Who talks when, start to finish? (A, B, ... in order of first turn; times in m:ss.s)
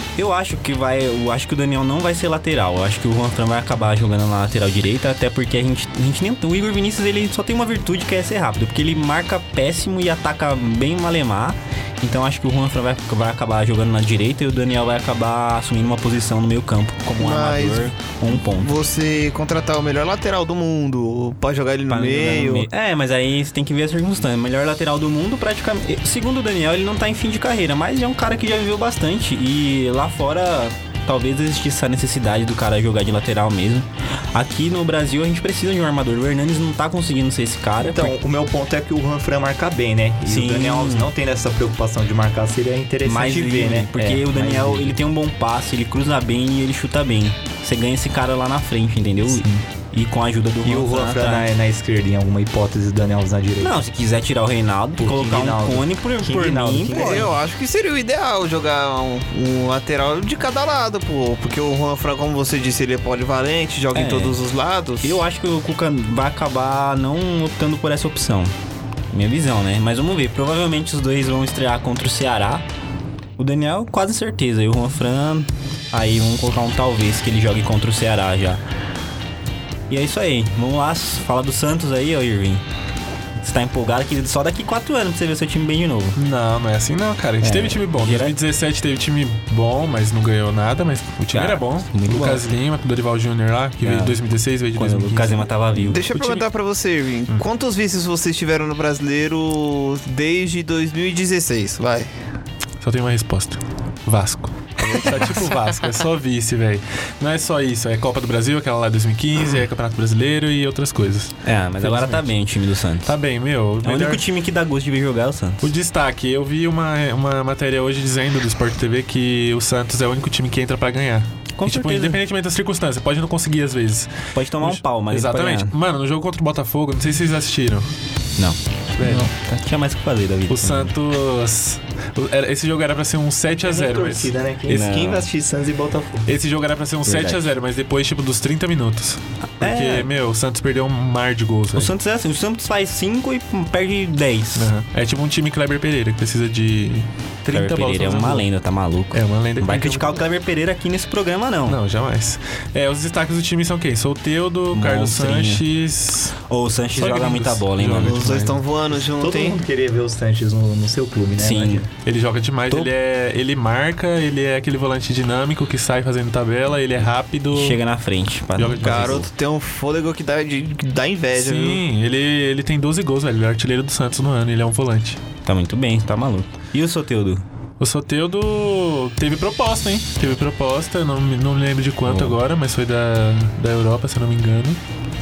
0:00.2-0:18.7 A
0:17.2-0:22.7 B
0:21.9-0:38.2 A
0:37.8-0:45.0 C
0:40.3-0:41.1 A
0:43.0-0:51.5 A
0:49.2-0:49.6 C
0:50.6-0:53.8 C
0:53.6-0:57.3 A
0:55.0-0:57.4 C
0:56.9-1:05.2 B
1:03.9-1:04.4 A
1:05.0-1:08.5 A
1:09.1-1:12.6 A
1:13.4-1:18.6 A
1:19.9-1:22.6 A
1:23.4-1:26.2 A
1:26.2-1:35.5 D
1:27.4-1:28.4 A
1:31.3-1:32.4 A
1:33.8-1:34.2 A
1:34.7-1:36.1 A
1:35.9-1:42.1 B
1:36.1-1:36.4 D
1:42.8-1:52.3 D
1:51.4-1:53.1 A
1:53.1-1:54.2 D
1:53.8-1:55.7 A
1:55.6-2:07.9 D
2:01.6-2:02.2 A
2:04.3-2:05.7 A
2:09.0-2:09.3 D
2:09.0-2:09.3 C
2:09.2-2:11.0 A
2:10.5-2:14.9 D
2:13.6-2:16.3 C
2:14.7-2:15.2 A
2:16.3-2:21.9 D
2:17.0-2:17.4 A
2:19.6-2:20.1 A
2:21.8-2:24.7 A
2:24.6-2:28.5 D
2:27.5-2:31.8 A
2:29.1-2:30.2 D
2:31.7-2:36.4 D
2:34.7-2:35.6 A
2:36.5-2:38.4 A
2:37.0-2:38.6 D
2:38.0-2:39.6 B
2:39.2-2:41.9 C
2:41.4-2:41.9 A
2:42.0-2:47.8 D
2:47.5-2:49.3 A
2:48.6-2:49.2 D
2:48.8-2:51.8 B
2:51.4-2:55.2 D
2:55.5-2:57.4 A
2:57.8-3:04.8 D
3:02.1-3:02.4 A